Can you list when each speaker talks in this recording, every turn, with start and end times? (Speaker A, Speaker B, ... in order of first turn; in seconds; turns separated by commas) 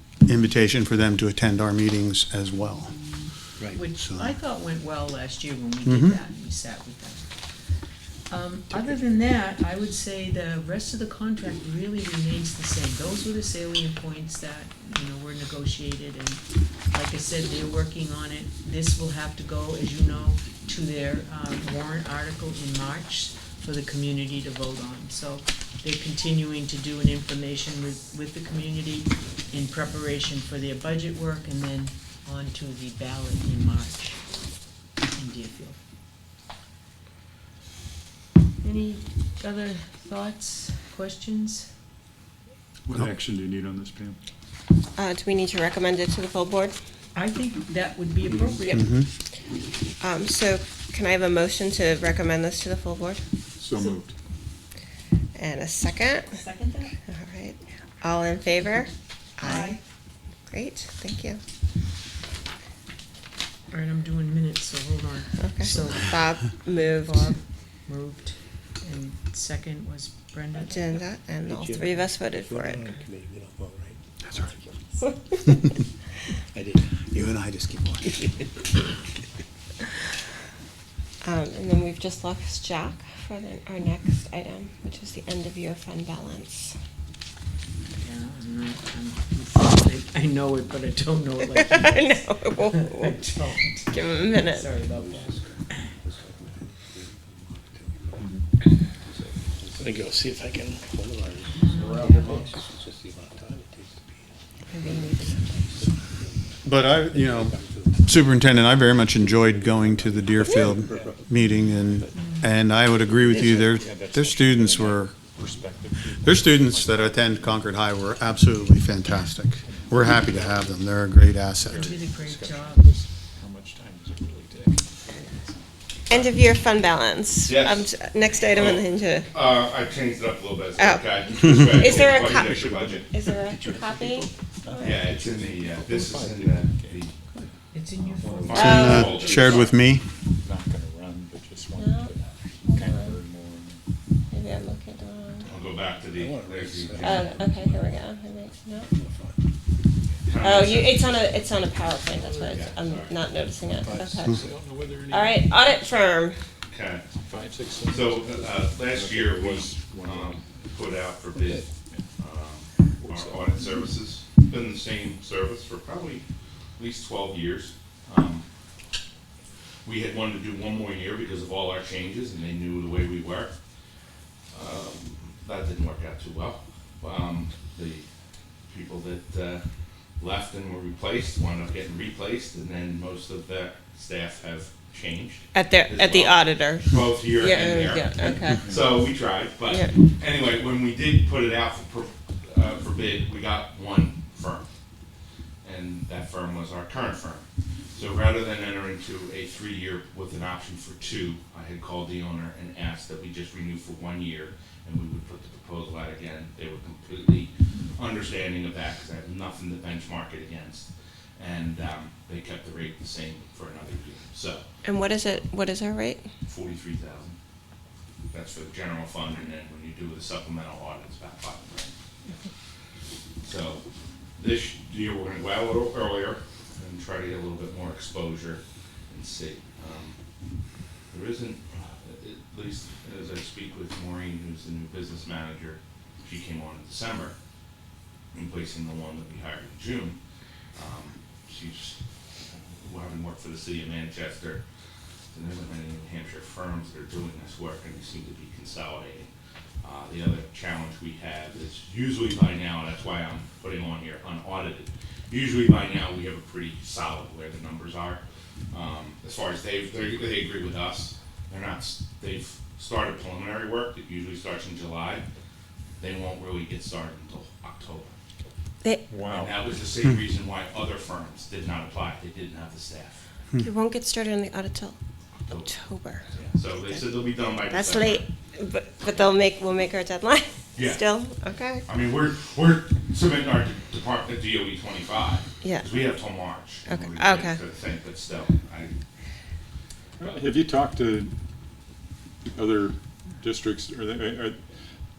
Speaker A: 0.3-3.1, Speaker B: 3.7-7.5, Speaker A: 4.0-4.4, Speaker A: 5.8-6.2, Speaker B: 8.3-34.2, Speaker B: 35.0-35.8, Speaker B: 38.6-41.7, Speaker C: 42.9-44.2, Speaker D: 45.0-46.8, Speaker B: 47.1-49.0, Speaker A: 48.7-49.1, Speaker D: 50.0-53.2, Speaker C: 53.6-54.1, Speaker B: 53.7-54.0, Speaker D: 55.4-56.4, Speaker B: 56.3-57.0, Speaker D: 57.1-59.8, Speaker B: 59.4-59.8, Speaker D: 60.5-61.4, Speaker B: 63.7-71.1, Speaker D: 65.4-67.3, Speaker D: 70.5-72.9, Speaker E: 71.5-74.7, Speaker B: 72.8-73.1, Speaker E: 76.5-78.7, Speaker A: 77.1-78.1, Speaker D: 81.2-86.8, Speaker B: 87.9-95.9, Speaker D: 91.6-93.2, Speaker D: 93.9-94.7, Speaker E: 94.8-98.4, Speaker C: 98.2-98.5, Speaker E: 99.1-112.1, Speaker B: 101.5-102.6, Speaker D: 104.7-105.7, Speaker A: 106.6-115.3, Speaker D: 110.5-110.7, Speaker C: 110.8-111.2, Speaker B: 112.2-112.5, Speaker E: 113.1-113.8, Speaker C: 113.2-118.8, Speaker A: 116.2-121.9, Speaker C: 119.6-120.9, Speaker C: 121.6-125.7, Speaker B: 121.7-122.9, Speaker D: 126.1-129.3, Speaker F: 127.5-133.1, Speaker D: 130.8-135.1, Speaker C: 131.9-133.0, Speaker E: 133.3-134.3, Speaker C: 134.6-143.8, Speaker F: 134.8-137.2, Speaker E: 135.2-135.5, Speaker B: 137.7-139.1, Speaker F: 138.3-139.7, Speaker D: 138.5-139.6, Speaker A: 138.6-140.1, Speaker D: 141.8-143.2, Speaker D: 144.3-145.5, Speaker F: 145.4-147.5, Speaker E: 145.6-148.0, Speaker D: 147.0-148.9, Speaker E: 148.9-149.4, Speaker F: 150.2-151.3, Speaker D: 150.4-154.5, Speaker C: 152.1-152.6, Speaker F: 152.5-153.2, Speaker C: 153.7-155.8, Speaker D: 155.1-156.4, Speaker F: 156.7-157.1, Speaker C: 157.1-160.6, Speaker F: 157.9-161.7, Speaker F: 162.2-166.2, Speaker C: 163.0-163.6, Speaker F: 166.8-168.5, Speaker F: 169.8-173.5, Speaker F: 174.5-178.1, Speaker F: 178.7-179.6, Speaker F: 180.2-194.7, Speaker D: 185.5-188.8, Speaker D: 189.7-189.9, Speaker F: 195.6-215.5, Speaker D: 214.8-216.3, Speaker F: 216.4-217.4, Speaker F: 218.3-221.9, Speaker F: 223.4-223.8, Speaker F: 224.4-230.2, Speaker F: 231.1-237.3, Speaker F: 238.3-240.2, Speaker F: 240.8-244.6, Speaker F: 245.3-249.3, Speaker F: 249.8-265.2, Speaker F: 266.0-268.1, Speaker C: 269.1-269.6, Speaker F: 269.3-273.2, Speaker D: 273.6-275.0, Speaker F: 275.5-275.7, Speaker D: 275.5-276.3, Speaker F: 276.3-278.2, Speaker D: 276.9-281.9, Speaker F: 280.8-281.2, Speaker F: 281.9-288.9, Speaker D: 285.6-286.2, Speaker D: 286.9-287.6, Speaker C: 290.2-291.3, Speaker C: 292.4-294.6